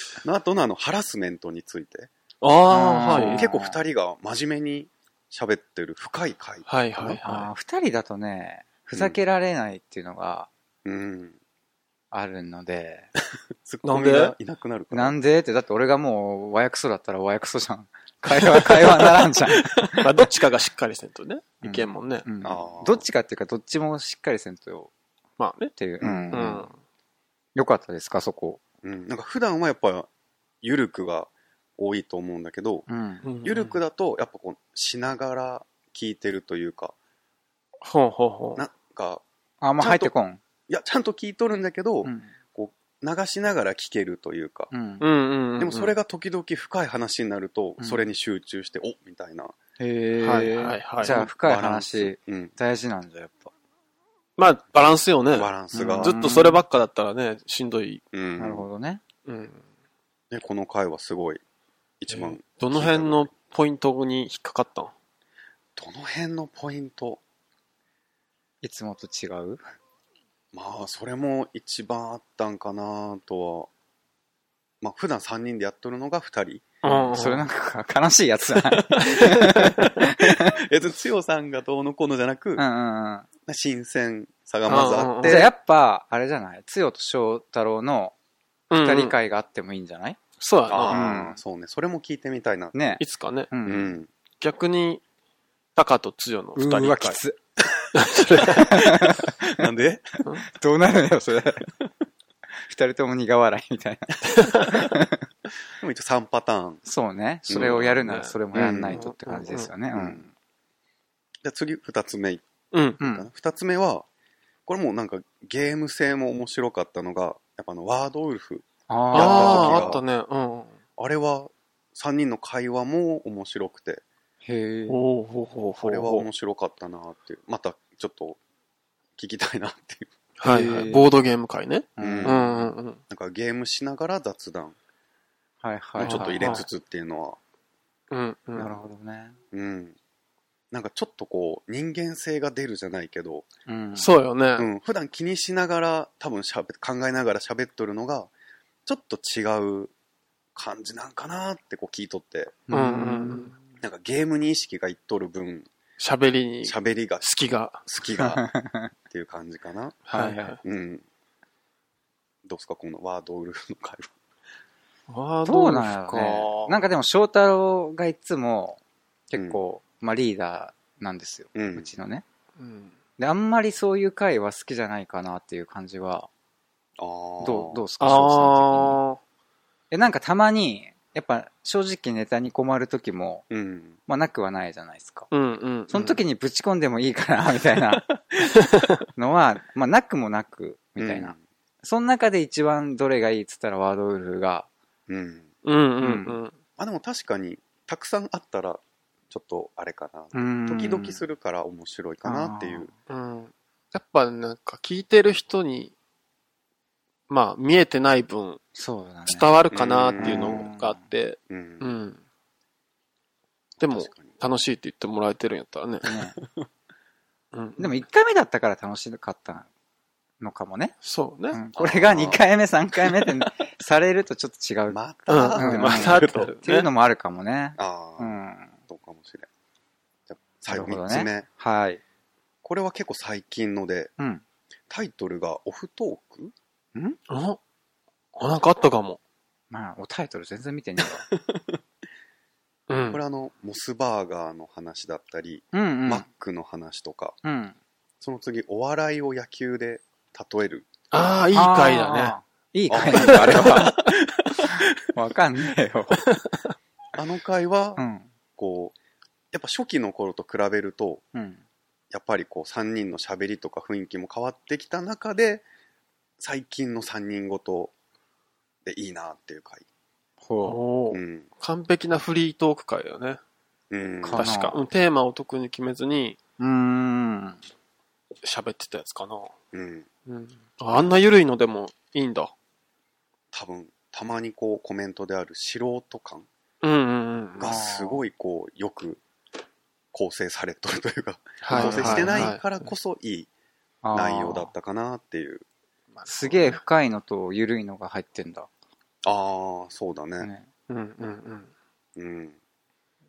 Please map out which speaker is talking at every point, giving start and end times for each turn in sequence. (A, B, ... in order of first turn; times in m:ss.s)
0:00.2-0:02.1 A
0:02.4-0:03.4 B
0:02.7-0:03.8 C
0:03.1-0:06.7 A
0:06.7-0:07.5 B
0:07.0-0:10.5 C
0:10.8-0:11.4 A
0:12.1-0:13.1 C
0:13.6-0:15.2 A
0:13.8-0:14.3 B
0:14.9-0:20.1 C
0:20.0-0:22.2 B
0:21.6-0:24.9 C
0:22.4-0:23.0 A
0:25.4-0:25.7 B
0:25.8-0:26.7 C
0:26.0-0:26.5 A
0:26.3-0:26.7 B
0:27.5-0:28.6 C
0:28.8-0:30.1 A
0:30.6-0:32.8 A
0:32.9-0:33.2 C
0:33.2-0:33.8 B
0:33.4-0:36.9 A
0:37.8-0:38.6 B
0:38.6-0:39.2 A
0:39.6-0:40.4 C
0:39.8-0:40.1 A
0:40.7-0:44.7 A
0:42.0-0:42.3 C
0:44.7-0:45.0 C
0:45.0-0:45.9 B
0:45.6-0:49.6 A
0:47.8-0:48.0 C
0:49.8-0:53.5 C
0:50.2-0:51.2 B
0:51.0-0:52.5 A
0:54.4-0:58.0 B
0:55.3-0:56.2 A
0:55.7-0:56.6 C
0:58.1-0:58.6 A
0:58.4-0:59.0 C
0:59.2-0:59.6 B
1:00.3-1:01.4 A
1:02.0-1:03.3 A
1:02.1-1:04.9 B
1:05.8-1:07.2 A
1:08.6-1:09.6 C
1:10.5-1:13.7 A
1:14.8-1:16.8 A
1:16.8-1:17.4 B
1:16.8-1:20.6 C
1:18.5-1:22.6 A
1:22.6-1:23.3 C
1:23.4-1:25.5 A
1:24.7-1:25.5 B
1:25.2-1:28.1 C
1:28.7-1:29.2 B
1:28.7-1:30.2 C
1:30.4-1:31.0 B
1:30.7-1:32.8 A
1:30.9-1:31.4 C
1:32.7-1:34.0 C
1:33.0-1:33.5 B
1:33.6-1:34.1 A
1:34.4-1:35.0 B
1:35.8-1:37.2 B
1:36.6-1:37.4 C
1:37.9-1:38.9 B
1:38.4-1:39.7 C
1:39.4-1:40.2 A
1:40.4-1:41.7 C
1:42.6-1:45.2 C
1:44.3-1:44.7 B
1:45.8-1:46.8 A
1:46.8-1:50.3 C
1:47.5-1:47.8 A
1:47.5-1:49.7 B
1:48.5-1:49.0 A
1:49.9-1:50.2 A
1:51.4-1:52.4 A
1:52.7-1:53.0 B
1:53.0-1:54.1 A
1:53.0-1:53.3 C
1:54.7-2:00.0 A
1:58.9-2:00.0 C
1:59.1-2:00.8 B
2:01.0-2:04.0 A
2:04.4-2:05.0 C
2:04.9-2:06.2 B
2:05.8-2:08.4 A
2:09.2-2:10.1 A
2:10.4-2:13.0 B
2:10.4-2:11.1 C
2:12.0-2:12.7 C
2:12.0-2:12.4 A
2:13.1-2:14.8 A
2:15.6-2:16.6 C
2:16.0-2:16.7 B
2:16.0-2:17.4 A
2:18.1-2:18.7 B
2:18.6-2:19.4 C
2:19.5-2:20.0 A
2:20.7-2:23.5 A
2:23.7-2:24.1 C
2:24.0-2:24.7 B
2:24.6-2:28.3 A
2:28.8-2:29.9 A
2:30.6-2:32.6 A
2:32.7-2:33.6 C
2:32.7-2:33.5 B
2:33.8-2:35.7 A
2:36.0-2:37.8 B
2:36.6-2:37.3 A
2:37.8-2:38.4 A
2:38.2-2:38.9 C
2:39.1-2:40.0 A
2:40.1-2:40.6 B
2:40.1-2:40.6 C
2:40.6-2:41.0 A
2:42.4-2:44.1 A
2:45.1-2:46.8 B
2:45.4-2:52.2 C
2:49.3-2:49.6 A
2:51.5-2:51.9 A
2:52.6-2:52.9 B
2:53.2-2:56.3 C
2:57.0-2:57.8 A
2:57.4-2:59.0 C
2:58.0-2:59.2 B
2:59.9-3:03.4 C
3:03.5-3:04.0 A
3:04.0-3:05.3 C
3:05.3-3:06.2 B
3:05.9-3:08.1 C
3:09.2-3:14.7 C
3:11.0-3:11.4 A
3:15.1-3:15.5 A
3:15.6-3:16.5 B
3:16.0-3:16.4 C
3:16.8-3:22.9 A
3:20.3-3:21.2 C
3:22.2-3:22.9 C
3:23.1-3:25.9 B
3:27.3-3:28.6 B
3:28.8-3:29.5 C
3:29.3-3:32.2 B
3:29.7-3:30.6 A
3:30.2-3:31.0 C
3:31.5-3:31.9 A
3:33.8-3:34.4 A
3:33.8-3:36.1 B
3:36.0-3:36.4 C
3:37.5-3:38.0 B
3:37.8-3:39.7 C
3:40.4-3:40.9 C
3:41.0-3:41.6 B
3:41.5-3:45.0 C
3:41.8-3:42.4 A
3:44.9-3:46.5 A
3:45.3-3:46.9 B
3:45.5-3:48.7 C
3:47.8-3:48.4 A
3:48.9-3:49.5 A
3:50.3-3:51.5 A
3:50.7-3:52.0 C
3:52.6-3:54.1 A
3:54.9-3:56.5 A
3:57.3-3:57.6 B
3:58.3-3:59.2 B
3:59.7-4:01.2 C
4:01.5-4:01.8 A
4:02.9-4:03.2 B
4:03.1-4:07.4 A
4:05.7-4:06.2 C
4:07.4-4:07.8 C
4:08.2-4:11.4 A
4:11.1-4:12.3 B
4:11.5-4:14.0 C
4:12.9-4:14.9 A
4:13.1-4:13.8 B
4:14.6-4:16.2 C
4:17.1-4:18.0 A
4:18.0-4:18.3 C
4:18.6-4:18.9 A
4:19.5-4:21.2 A
4:21.3-4:21.6 C
4:22.1-4:25.6 A
4:26.4-4:27.9 A
4:28.8-4:29.8 A
4:30.4-4:30.8 C
4:30.6-4:33.4 B
4:31.1-4:31.5 A
4:33.9-4:34.5 A
4:34.2-4:34.8 C
4:34.3-4:36.4 B
4:36.6-4:37.6 C
4:38.4-4:39.5 B
4:39.7-4:40.1 A
4:40.3-4:42.5 B
4:43.5-4:46.5 A
4:46.8-4:47.7 B
4:47.6-4:49.2 A
4:47.6-4:48.2 C
4:50.1-4:53.5 A
4:51.6-4:52.9 B
4:51.7-4:52.5 C
4:54.0-4:54.7 C
4:54.1-4:55.6 A
4:56.1-4:56.8 B
4:56.3-4:58.7 C
4:59.2-5:00.5 A
5:00.4-5:00.7 C
5:00.9-5:01.7 B
5:02.2-5:02.6 A